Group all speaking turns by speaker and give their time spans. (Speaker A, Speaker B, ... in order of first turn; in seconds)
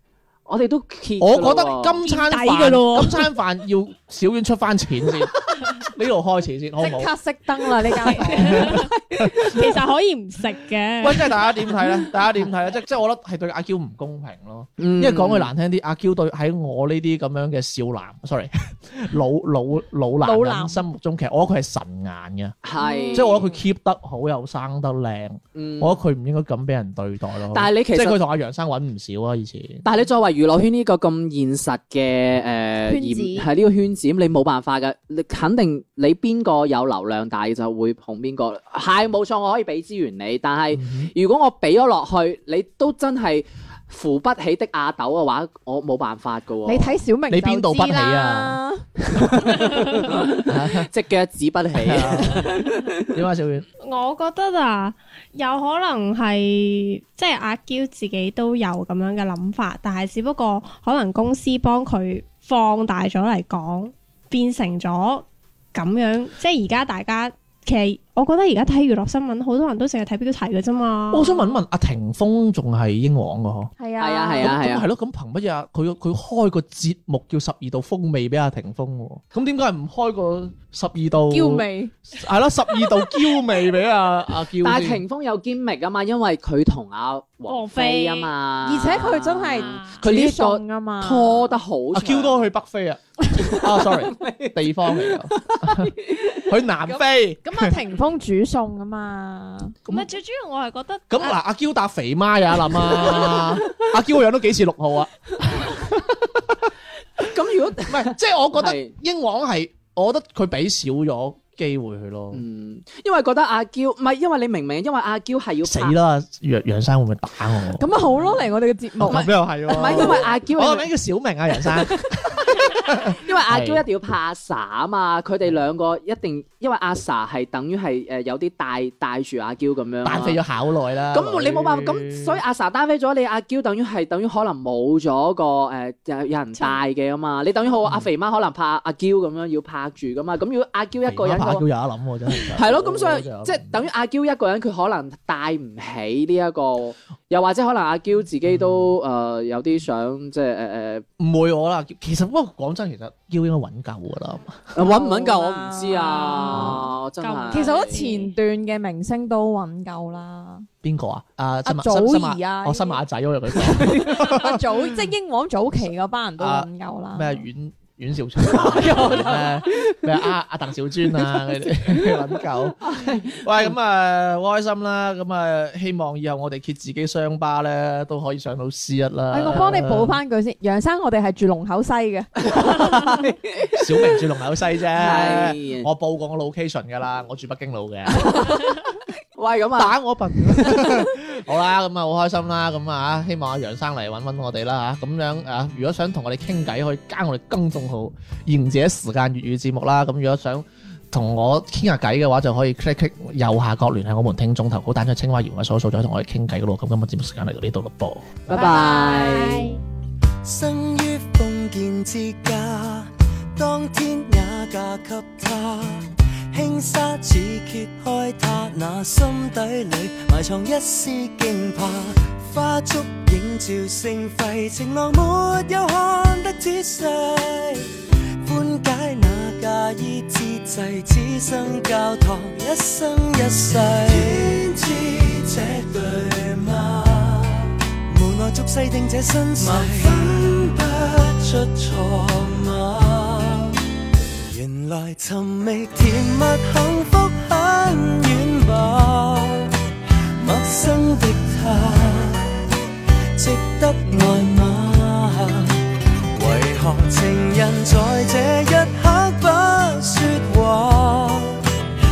Speaker A: 0.5-2.0, 14.8-15.5, 22.6-23.5, 25.6-26.0, 27.5-28.2, 29.8-47.0, 49.1-53.1, 74.0-74.9, 84.6-92.5, 93.8-96.5, 102.9-103.8, 107.2-108.9, 112.3-116.0, 119.1-120.9, 122.8-130.4, 131.1-141.7, 142.5-151.1, 154.7-158.2, 163.9-164.1, 168.4-170.1, 172.0-173.4, 182.5-183.8, 185.0-185.9, 188.2-188.8, 189.3-190.8, 208.5-209.8
Speaker B: 1.2-7.1, 8.3-9.8, 11.0-22.6, 23.1-29.9, 40.7-41.1, 47.3-48.6, 50.4-50.9, 51.8-52.5, 53.1-53.7, 71.1-73.7, 74.4-85.0, 91.9-97.8, 99.9-100.1, 101.1-106.7, 107.8-112.4, 115.6-118.3, 119.0-123.8, 130.0-132.4, 141.1-143.8, 148.5-148.8, 151.2-154.7, 156.6-156.8, 160.8-165.1, 166.4-180.2, 183.7-188.6, 189.8-208.4
Speaker C: 2.0-3.3, 8.0-11.4, 53.8-71.5, 87.5-88.3, 99.9-101.4, 157.2-158.2, 208.5-209.8
Speaker D: 6.8-8.8, 20.2-20.8, 22.8-23.4, 32.9-33.5, 46.6-48.9, 73.8-74.6, 81.3-81.9, 88.6-91.6, 96.9-99.8, 117.8-120.3, 154.8-156.8, 157.5-160.7, 161.7-163.0, 163.5-167.5, 179.3-182.3
Speaker E: 210.4-243.8, 244.5-249.7, 250.4-252.7, 253.3-255.8, 256.3-261.6